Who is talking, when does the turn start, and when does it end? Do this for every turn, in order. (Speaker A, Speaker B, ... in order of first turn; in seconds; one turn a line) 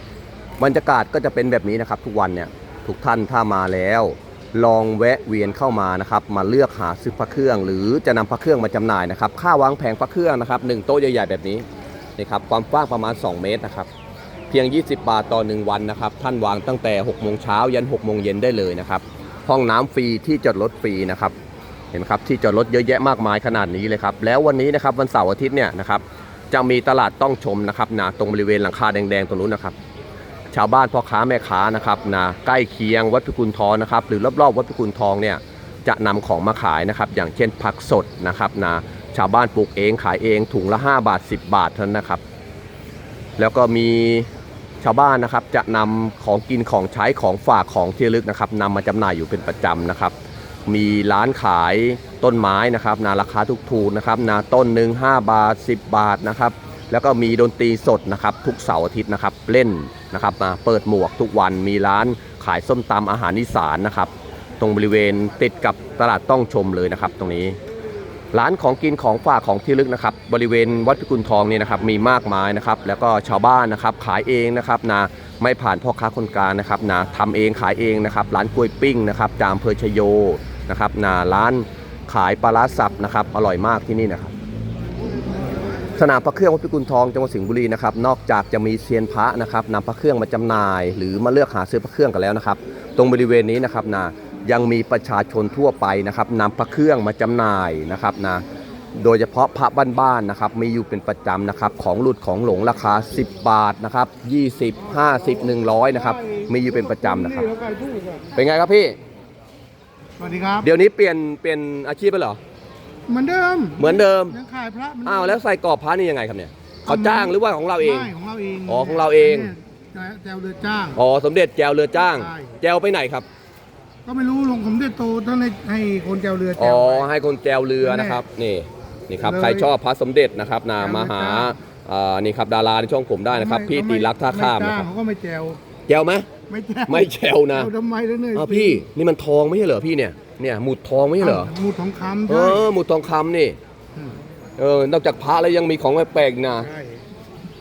Speaker A: 0.6-11.7
Speaker A: 12.2-13.9
Speaker A: 14.5-21.3
Speaker A: 21.9-29.8
Speaker A: 30.5-42.2
Speaker A: 43.4-44.3
Speaker A: 44.8-50.1
Speaker A: 50.7-67.6
Speaker A: 68.3-84.3
Speaker A: 86.0-98.4
Speaker A: 98.9-107.5
Speaker B: 105.9-108.3
Speaker A: 108.3-109.0
Speaker B: 110.2-110.7
Speaker A: 110.6-112.4
Speaker B: 113.1-115.4
Speaker A: 113.8-114.3
Speaker A: 115.0-118.1
Speaker B: 116.8-121.0
Speaker A: 118.7-119.5
Speaker A: 120.9-123.2
Speaker B: 122.0-122.6
Speaker B: 124.0-127.1
Speaker A: 126.6-134.9
Speaker B: 127.8-128.2
Speaker B: 129.2-129.7
Speaker B: 130.8-131.5
Speaker B: 133.3-135.6
Speaker A: 135.9-136.3
Speaker B: 136.5-138.8
Speaker A: 136.9-137.7
Speaker A: 138.3-141.5
Speaker B: 141.2-142.6
Speaker A: 142.3-143.6
Speaker A: 144.6-146.7
Speaker B: 146.6-147.0